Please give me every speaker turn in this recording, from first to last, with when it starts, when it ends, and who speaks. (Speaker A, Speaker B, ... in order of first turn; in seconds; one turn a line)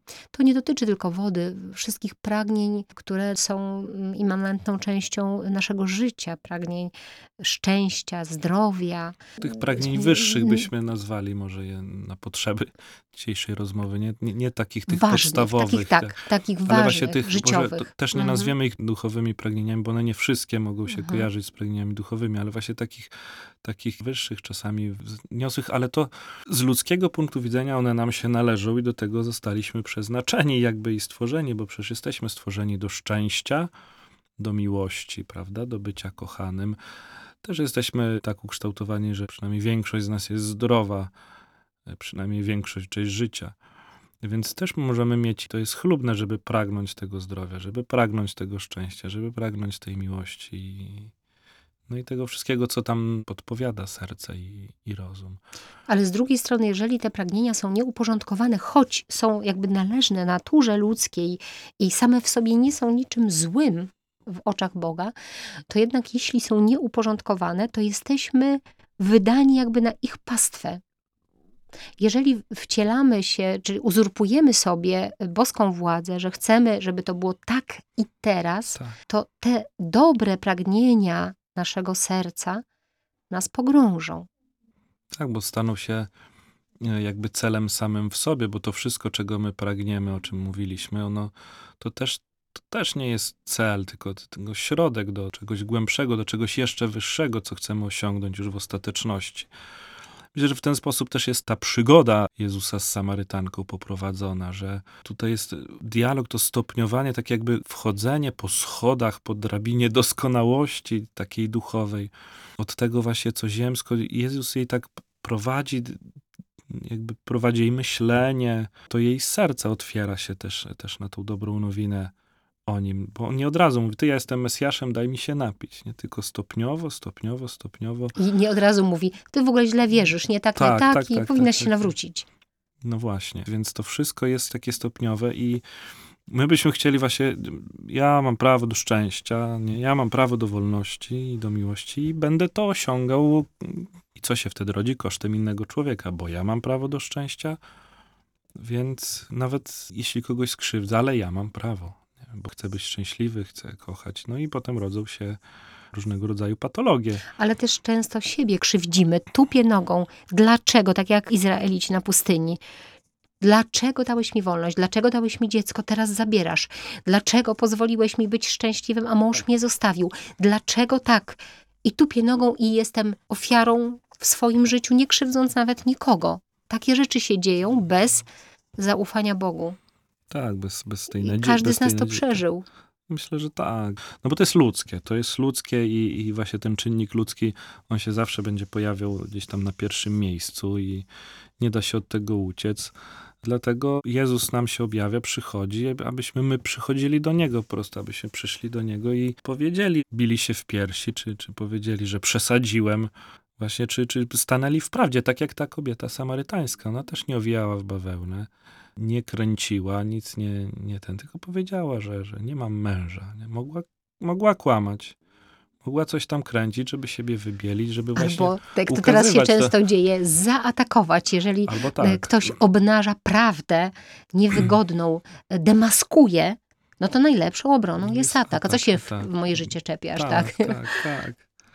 Speaker A: 0.3-10.7
Speaker B: 9.4-23.1
Speaker A: 14.9-18.5
Speaker A: 20.9-21.3
Speaker B: 23.6-33.7
Speaker B: 34.4-36.8
Speaker B: 37.4-41.1
Speaker B: 41.9-43.5
Speaker B: 44.2-51.1
Speaker B: 51.9-55.4
Speaker A: 55.9-65.1
Speaker A: 65.7-70.8
Speaker A: 72.0-82.6
Speaker A: 83.3-84.3
Speaker B: 85.1-86.1
Speaker B: 86.8-99.5
Speaker B: 100.3-116.0
Speaker B: 116.7-122.1
Speaker B: 122.7-128.1
Speaker A: 128.2-132.3
Speaker B: 130.6-131.9
Speaker B: 132.8-135.6
Speaker B: 136.3-147.6
Speaker B: 148.6-155.4
Speaker B: 155.9-157.2
Speaker A: 157.3-162.6
Speaker A: 163.4-178.3
Speaker A: 178.8-179.8
Speaker B: 180.3-182.4
Speaker A: 181.2-182.7
Speaker B: 183.1-191.1
Speaker B: 191.6-215.2
Speaker B: 215.8-219.7
Speaker A: 218.2-231.0
Speaker B: 221.6-222.6
Speaker B: 228.0-231.4